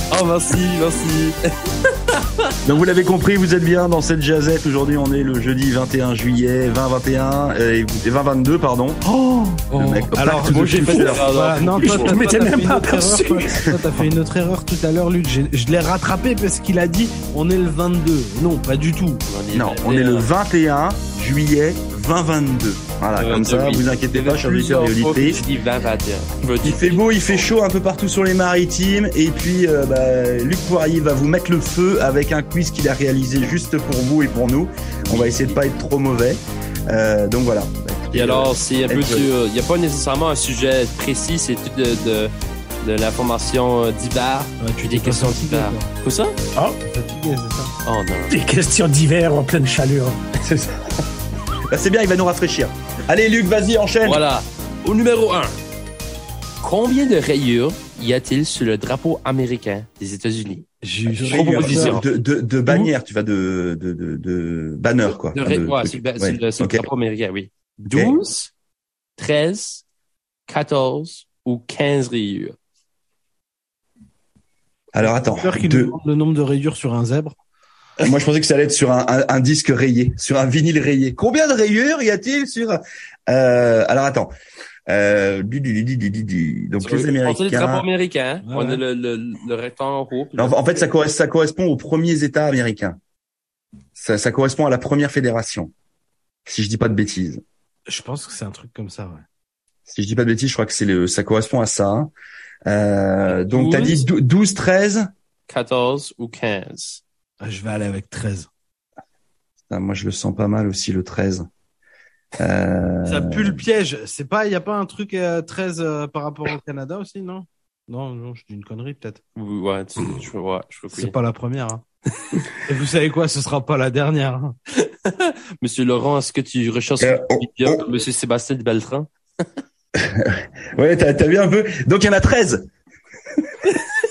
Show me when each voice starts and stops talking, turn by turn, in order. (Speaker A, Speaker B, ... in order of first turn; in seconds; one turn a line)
Speaker A: 0.1-1.4
Speaker A: 2.1-2.5
Speaker B: 2.7-9.0
Speaker C: 9.1-19.2
Speaker B: 9.7-11.3
Speaker A: 10.4-12.2
Speaker D: 11.8-13.7
Speaker A: 19.3-20.3
Speaker B: 19.5-25.4
Speaker A: 23.2-27.4
Speaker B: 26.6-39.3
Speaker A: 35.1-35.6
Speaker A: 38.1-46.4
Speaker C: 44.6-45.9
Speaker C: 46.8-47.7
Speaker A: 47.9-48.4
Speaker D: 48.3-50.2
Speaker B: 50.4-50.8
Speaker B: 51.7-54.2
Speaker A: 54.0-55.5
Speaker A: 56.6-60.6
Speaker C: 60.8-62.0
Speaker B: 61.1-66.9
Speaker A: 61.2-62.2
Speaker A: 65.2-68.5
Speaker B: 67.8-68.2
Speaker A: 69.2-69.8
Speaker A: 70.5-72.5
Speaker B: 74.9-76.0
Speaker C: 75.0-77.4
Speaker B: 78.0-84.3
Speaker B: 84.9-87.9
Speaker A: 86.8-90.7
Speaker C: 88.4-88.8
Speaker B: 90.4-93.0
Speaker B: 94.0-95.7
Speaker B: 96.5-97.4
Speaker C: 97.9-99.3
Speaker B: 99.9-102.1
Speaker B: 102.7-105.1
Speaker A: 103.2-104.0
Speaker A: 105.5-107.0
Speaker C: 107.4-108.5
Speaker B: 109.7-111.5
Speaker B: 112.4-113.6
Speaker C: 113.0-119.2
Speaker A: 119.4-121.2
Speaker C: 120.9-124.5
Speaker A: 124.8-129.1
Speaker B: 127.0-127.8
Speaker B: 130.0-132.7